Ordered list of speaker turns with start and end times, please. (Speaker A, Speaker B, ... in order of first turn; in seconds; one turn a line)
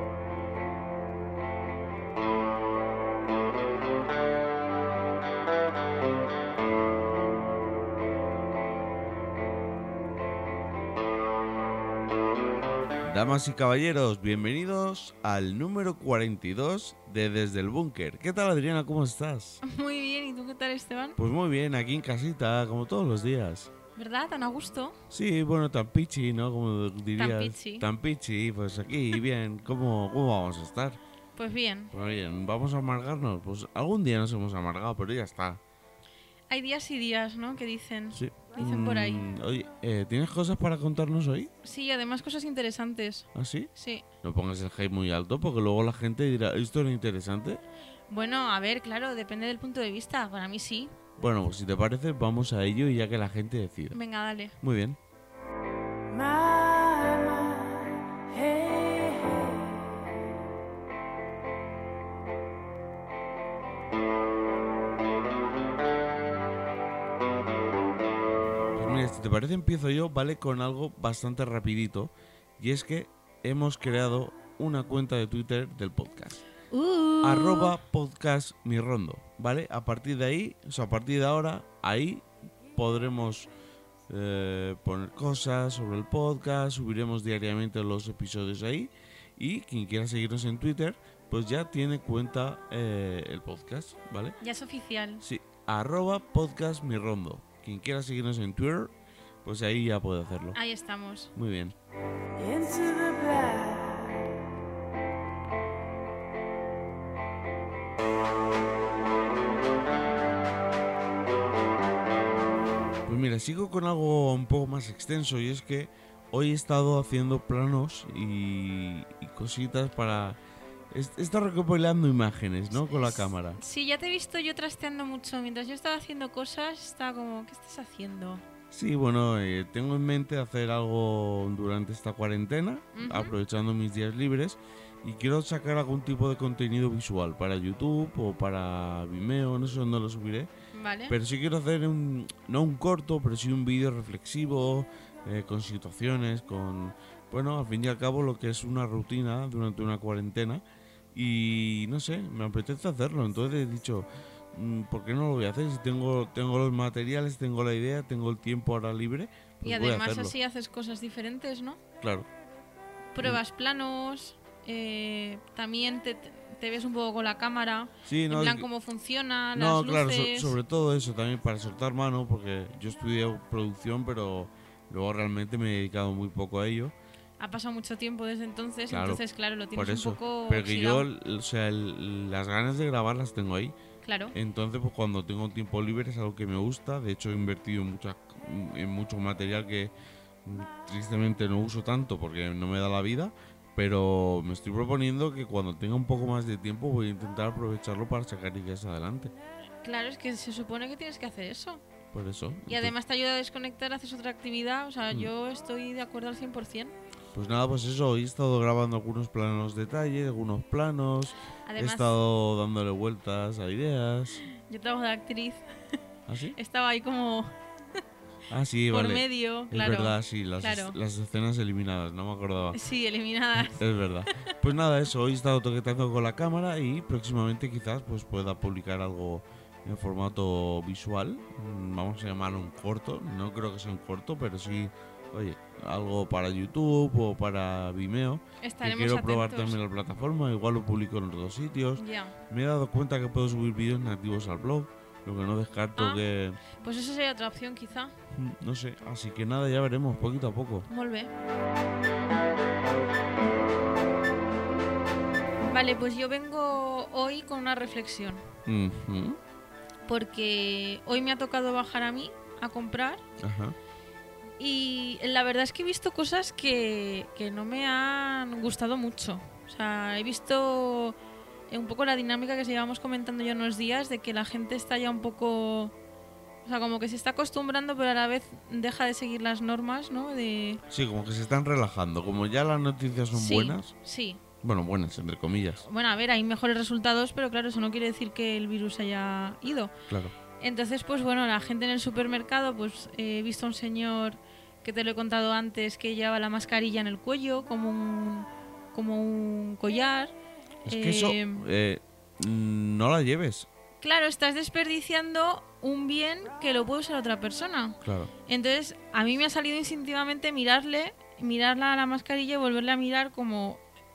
Speaker A: 13.1-19.6
Speaker B: 19.6-21.2
Speaker A: 21.2-23.7
Speaker B: 23.9-24.9
Speaker A: 25.1-31.0
Speaker B: 27.2-27.9
Speaker B: 31.4-31.9
Speaker A: 31.9-35.6
Speaker B: 36.5-39.3
Speaker A: 38.1-41.5
Speaker B: 41.6-44.0
Speaker A: 43.3-43.7
Speaker A: 44.2-47.6
Speaker B: 48.1-50.9
Speaker A: 51.2-54.0
Speaker B: 53.9-54.5
Speaker A: 54.6-55.0
Speaker C: 56.1-60.0
Speaker A: 68.8-76.4
Speaker B: 76.7-77.7
Speaker A: 77.2-83.5
Speaker A: 84.1-94.4
Speaker B: 94.4-95.2
Speaker A: 95.2-98.9
Speaker A: 99.4-100.6
Speaker B: 100.5-101.3
Speaker A: 101.3-101.7
Speaker C: 102.4-104.3
Speaker A: 113.0-120.4
Speaker A: 120.9-123.6
Speaker B: 122.9-128.4
Speaker A: 128.7-140.5
Speaker B: 132.9-133.3
Speaker B: 140.7-141.2
Speaker A: 141.1-150.6
Speaker A: 151.1-160.3
Speaker B: 159.6-161.8
Speaker A: 162.0-162.3
Speaker B: 163.1-170.6
Speaker A: 168.1-168.7
Speaker A: 169.5-176.9
Speaker B: 177.4-181.1
Speaker A: 178.9-179.2
Speaker A: 179.7-183.7
Speaker B: 184.0-184.3
Speaker A: 184.3-189.9
Speaker A: 190.4-199.3
Speaker B: 199.8-201.8
Speaker A: 202.1-202.9
Speaker B: 202.7-206.9
Speaker A: 207.3-214.4
Speaker B: 211.7-212.1
Speaker B: 214.4-215.6
Speaker A: 216.3-216.6
Speaker B: 216.6-217.5
Speaker A: 218.5-222.8
Speaker B: 218.9-221.0
Speaker B: 222.7-224.5
Speaker A: 223.6-246.6
Speaker B: 238.6-239.8
Speaker B: 241.9-242.3
Speaker B: 246.0-246.2
Speaker B: 246.8-248.1
Speaker A: 248.3-250.9
Speaker B: 250.9-251.3
Speaker B: 255.7-258.4
Speaker A: 258.6-259.4
Speaker B: 260.1-263.2
Speaker A: 263.4-263.8
Speaker B: 264.6-271.2
Speaker B: 271.7-275.9
Speaker B: 276.6-280.8
Speaker A: 280.9-283.9
Speaker B: 283.3-284.4
Speaker A: 284.6-285.8
Speaker B: 285.8-289.9
Speaker B: 290.6-300.3
Speaker B: 300.8-301.6
Speaker A: 300.9-303.7
Speaker B: 304.0-313.8
Speaker A: 308.0-308.3